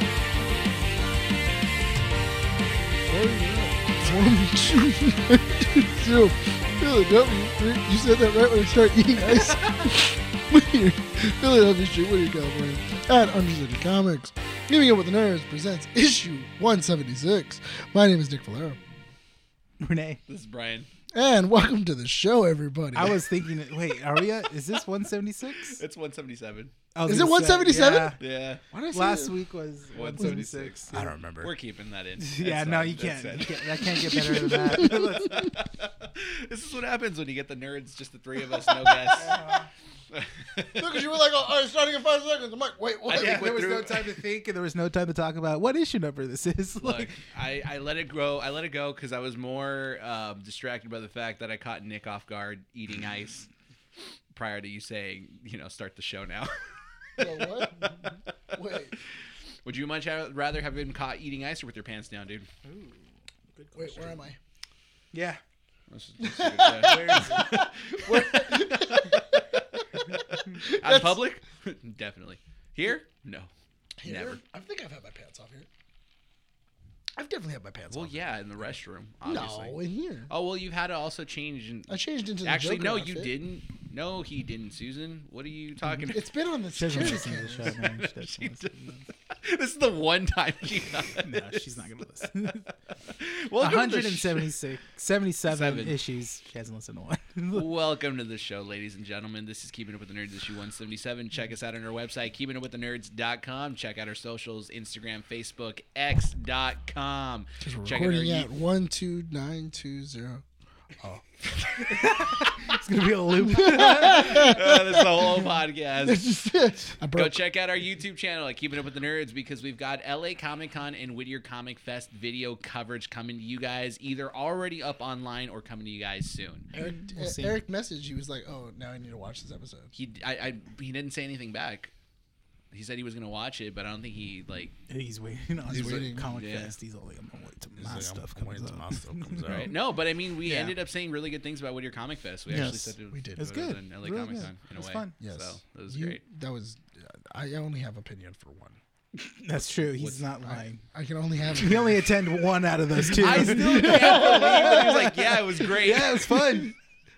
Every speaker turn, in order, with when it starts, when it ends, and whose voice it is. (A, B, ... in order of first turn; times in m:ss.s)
0:03.1-0:18.8 A
0:09.4-0:09.8 B
0:19.8-0:20.2 B
0:20.3-0:20.9 C
0:21.1-0:23.3 A
0:23.0-0:25.8 B
0:25.6-0:26.7 C
0:26.9-0:28.2 B
0:27.1-0:28.2 A
0:28.2-0:28.6 C
0:28.7-0:29.4 A
0:28.9-0:31.1 B
0:29.9-0:39.4 C
0:30.9-0:31.5 A
0:32.2-0:35.5 B
0:34.2-0:35.4 A
0:38.6-0:39.6 A
0:39.2-0:39.7 B
0:40.1-0:41.0 C
0:40.6-0:44.0 A
0:43.1-0:47.1 B
0:43.1-0:44.0 C
0:46.8-0:53.5 C
0:54.3-0:58.6 C
0:57.2-0:59.0 A
0:59.6-1:02.5 C
1:02.6-1:04.2 B
1:03.8-1:04.4 A
1:05.1-1:05.4 B
1:05.9-1:13.5 C
1:06.2-1:11.2 A
1:06.8-1:07.7 B
1:14.0-1:15.7 A
1:14.0-1:14.4 C
1:17.2-1:18.3 A
1:17.9-1:26.2 C
1:19.3-1:20.3 A
1:21.9-1:23.3 A
1:26.1-1:27.8 A
1:26.8-1:29.0 B
1:27.7-1:31.7 C
1:31.2-1:32.7 B
1:33.0-1:34.5 C
1:33.6-1:37.7 B
1:35.5-1:36.0 C
1:37.5-1:48.5 C
1:47.6-1:50.4 A
1:51.8-1:54.6 B
1:53.5-1:57.4 A
1:53.7-1:56.3 C
1:57.1-2:06.7 C
2:06.7-2:09.9 A
2:06.8-2:07.6 B
2:10.0-2:11.9 C
2:12.7-2:14.7 C
2:14.9-2:19.7 B
2:15.6-2:16.3 A
2:15.7-2:16.8 C
2:17.8-2:19.7 A
2:19.5-2:26.2 C
2:20.4-2:20.7 B
2:22.5-2:25.2 B
2:23.1-2:23.4 A
2:25.2-2:28.8 A
2:29.2-2:30.8 B
2:30.0-2:30.2 C
2:30.4-2:32.1 A
2:31.5-2:36.7 B
2:33.1-2:36.4 C
2:33.2-2:35.1 A
2:36.2-2:36.7 A